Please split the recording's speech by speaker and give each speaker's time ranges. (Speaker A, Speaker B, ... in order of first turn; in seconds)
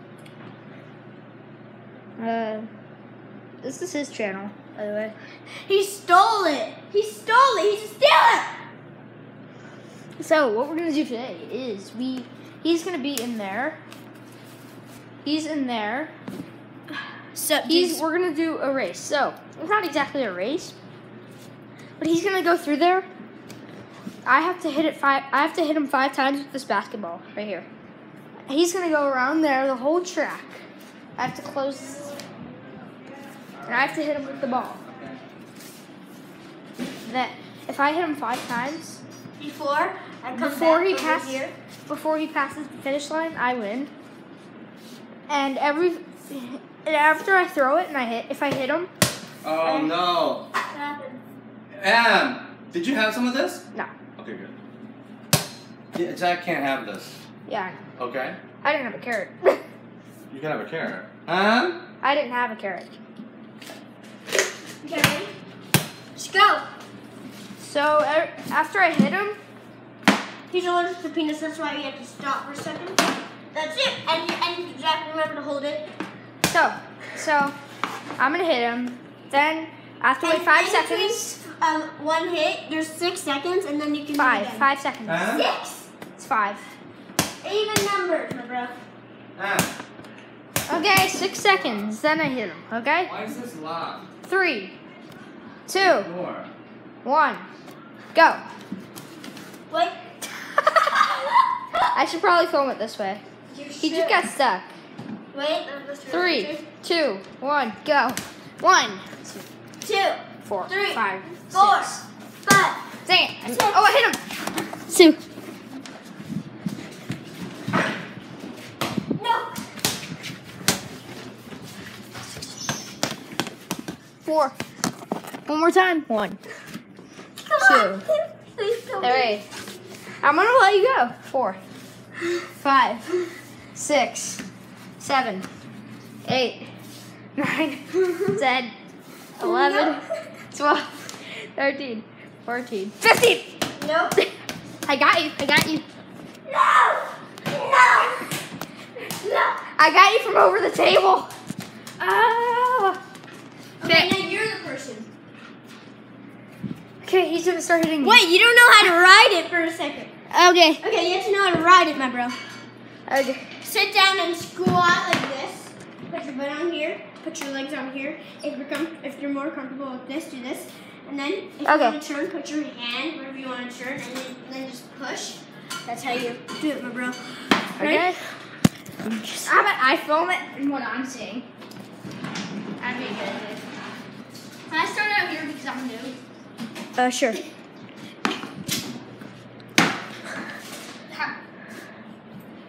Speaker A: 2.2-2.7, 3.6-5.2, 10.2-13.8, 15.2-16.1, 17.6-20.8, 22.0-23.1, 24.2-27.7, 28.5-30.6, 31.2-32.1, 33.7-34.8, 37.1-39.0, 40.4-43.9, 45.3-48.9, 57.5-57.8, 58.6-59.6, 62.0-62.9, 67.6-69.4, 76.5-77.5, 78.2-81.4, 84.2-85.4, 86.2-86.7, 90.7-93.1, 94.2-94.7, 95.7-96.1, 97.0-97.5, 98.1-98.4, 101.9-103.2, 103.8-104.7, 106.1-109.5, 110.5-112.0, 113.1-114.2, 114.9-115.2, 124.2-124.6, 125.5-126.4, 127.6-128.1, 129.0-129.4, 130.2-131.6, 132.6-133.1, 133.7-134.4, 135.0-135.5, 136.2-136.7, 137.4-138.7, 139.4-140.0, 140.5-143.6, 144.9-145.8, 149.8-151.3, 152.0-153.0, 153.8-154.1, 157.0-158.2, 160.3-160.8, 163.1-163.5, 171.7-172.0, 177.8-178.2, 179.4-181.5, 182.8-183.7, 184.7-186.2
Speaker B: 5.7-8.5, 16.9-18.0, 39.4-41.5, 49.6-50.0, 50.7-51.2, 64.8-65.3, 66.2-66.7, 70.5-73.0, 73.5-75.9, 80.2-84.7, 85.3-85.9, 87.4-88.8, 99.7-100.0, 100.8-101.5, 103.5-104.2, 105.3-106.6, 109.8-112.8, 113.5-114.0, 119.2-119.5, 127.4-129.3, 139.4-140.0, 143.8-144.2, 146.5-148.2, 149.2-149.6, 153.8-155.1, 158.0-160.1, 160.8-162.4, 163.6-178.2, 179.0-179.6, 187.0-187.4
Speaker C: 33.6-34.0, 49.4-50.5, 51.8-53.6, 54.2-54.5, 55.9-57.2, 58.0-58.4, 60.3-61.8, 85.1-85.5, 89.4-89.7, 93.1-94.0, 95.8-96.5